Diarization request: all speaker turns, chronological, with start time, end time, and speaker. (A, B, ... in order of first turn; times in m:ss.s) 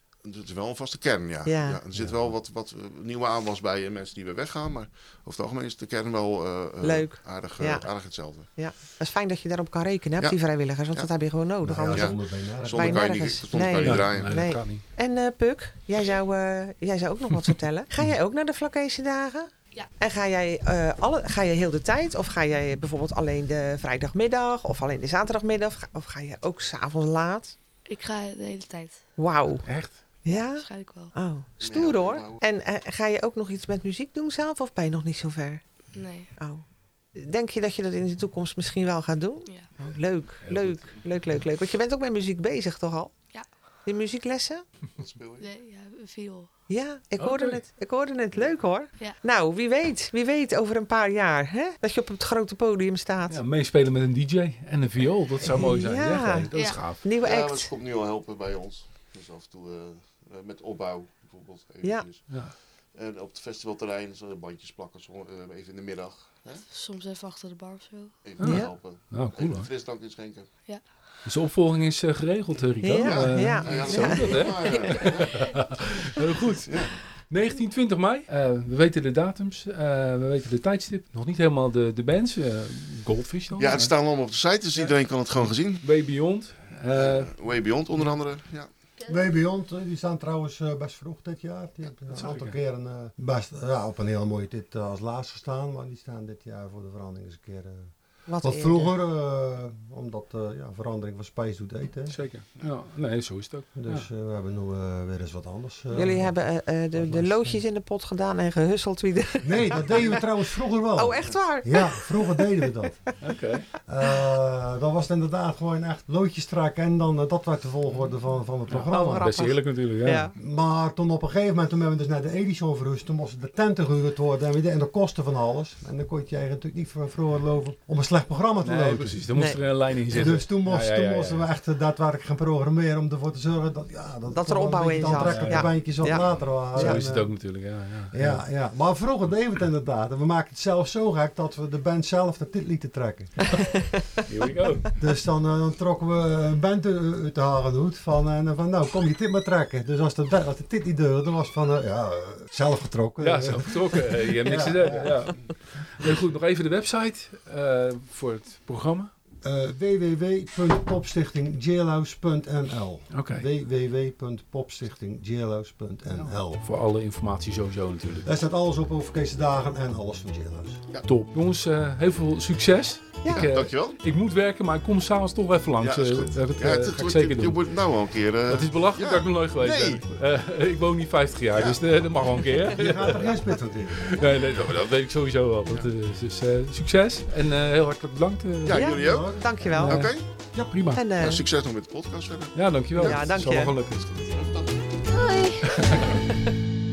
0:00.2-0:08.5 A
0:01.4-0:01.8 B
0:01.9-0:02.3 C
0:06.8-0:07.9 B
0:08.5-0:27.6 B
0:11.6-0:13.1 C
0:11.9-0:14.5 A
0:13.8-0:14.8 D
0:27.9-0:29.0 E
0:29.2-0:29.6 B
0:29.6-0:29.9 D
0:30.2-0:35.6 B
0:30.5-0:31.1 E
0:31.6-0:32.4 A
0:35.9-0:36.3 E
0:36.4-0:36.6 B
0:37.1-0:43.1 B
0:40.4-0:40.9 D
0:43.8-0:44.6 B
0:45.0-0:45.5 A
0:45.4-0:46.5 E
0:46.7-0:53.4 B
0:47.2-0:47.6 D
0:53.3-0:57.0 D
0:55.5-0:57.7 B
0:56.5-0:56.8 E
0:57.2-1:02.4 A
1:02.9-1:06.6 A
1:06.7-1:08.1 E
1:08.2-1:10.5 A
1:08.4-1:09.7 D
1:08.4-1:08.7 B
1:11.2-1:23.9 D
1:12.8-1:15.2 B
1:13.0-1:15.7 A
1:16.6-1:16.9 A
1:23.6-1:25.8 A
1:25.5-1:28.1 D
1:26.9-1:28.7 A
1:29.1-1:37.9 C
1:32.1-1:32.5 D
1:38.3-1:38.9 B
1:38.4-1:42.2 C
1:42.1-1:44.0 D
1:43.8-1:46.3 C
1:45.9-1:50.3 B
1:47.1-1:47.6 D
1:49.4-1:53.0 C
1:50.9-1:52.7 B
1:53.2-1:53.7 D
1:53.8-1:59.3 C
1:54.0-1:54.3 B
1:58.7-2:00.3 D
1:58.8-2:00.3 B
2:00.3-2:09.3 C
2:08.6-2:11.5 D
2:09.3-2:09.6 B
2:10.1-2:17.3 C
2:14.3-2:17.0 B
2:15.1-2:15.8 D
2:16.7-2:18.4 D
2:18.1-2:23.8 C
2:23.4-2:24.3 B
2:24.3-2:25.0 D
2:25.0-2:35.2 C
2:33.2-2:39.1 D
2:39.4-2:46.6 C
2:43.1-2:43.5 D
2:46.1-2:48.3 D
2:48.2-2:50.8 C
2:51.0-2:57.7 D
2:53.2-2:53.5 B
2:53.3-2:54.0 A
2:55.8-3:00.0 A
2:58.5-3:03.4 D
3:02.7-3:04.1 C
3:03.9-3:09.1 D
3:08.6-3:10.2 A
3:08.7-3:10.2 B
3:09.0-3:09.4 C
3:09.7-3:11.0 D
3:10.9-3:11.4 B
3:11.2-3:13.4 A
3:12.5-3:14.4 D
3:13.0-3:13.8 B
3:14.3-3:15.0 A
3:15.1-3:16.2 E
3:15.7-3:16.2 D